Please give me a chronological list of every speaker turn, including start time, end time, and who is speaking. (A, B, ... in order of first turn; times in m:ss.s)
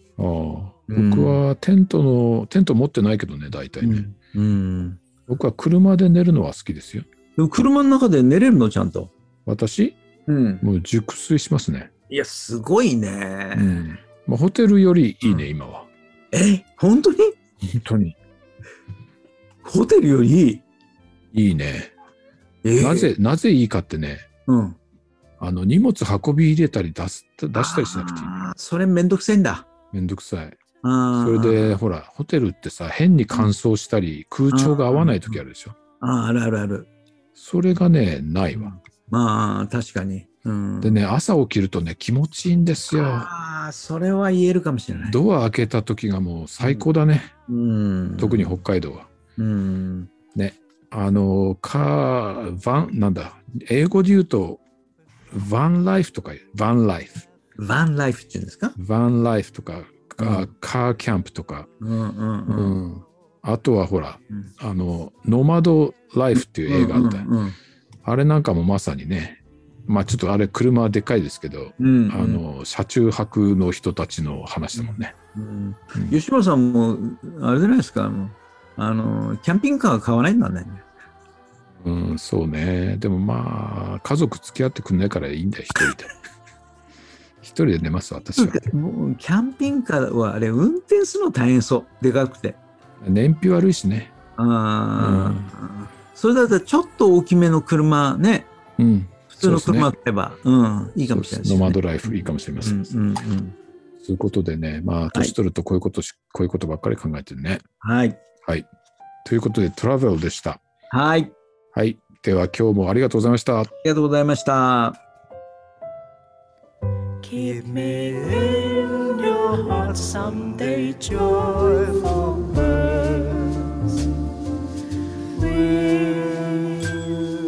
0:00.2-0:04.1 A
0:00.9-0:01.4 B
0:03.8-0:05.0 B
0:05.3-0:07.1 A
0:07.4-0:09.1 B
0:09.4-0:10.0 A
0:10.3-0:10.6 B
0:10.6-0:11.9 A
0:12.1-0:13.8 B
0:13.5-0:15.9 A
0:16.3-0:17.3 B
0:17.6-0:18.2 A
0:19.6-0:20.6 B
0:21.3-0:21.9 A
0:22.6-0:23.1 B
0:22.8-0:24.3 A
0:24.5-0:24.8 B
0:25.4-0:28.3 A
0:27.5-0:29.6 B
0:29.9-0:30.6 A
0:30.8-0:31.8 B
0:31.1-0:35.8 A
0:34.5-0:35.4 B
0:36.0-0:36.9 B
0:37.3-0:38.7 A
0:38.5-0:41.0 B
0:40.8-0:43.3 A
0:42.9-0:45.2 B
0:45.0-0:47.3 A
0:46.6-0:46.8 B
0:47.5-0:48.6 B
0:48.2-0:49.1 A
0:49.4-0:50.1 B
0:50.3-0:54.6 A
0:55.3-0:57.2 A
0:57.6-0:58.8 B
0:58.8-1:01.7 A
1:00.2-1:00.5 B
1:01.8-1:02.8 B
1:02.5-1:07.3 A
1:06.3-1:07.6 B
1:08.0-1:15.1 A
1:11.8-1:12.4 B
1:14.8-1:20.8 B
1:21.8-1:26.1 A
1:27.4-1:28.6 A
1:28.4-1:32.6 B
1:33.0-1:34.1 A
1:34.4-1:38.5 B
1:35.0-1:35.5 A
1:38.8-1:39.9 A
1:39.3-1:43.6 B
1:41.1-1:42.9 A
1:44.0-1:47.6 A
1:47.8-1:48.2 B
1:49.2-1:50.6 A
1:50.9-1:51.3 B
1:51.7-1:53.7 A
1:53.8-1:55.0 B
1:57.2-2:03.5 C
2:05.4-2:06.6 C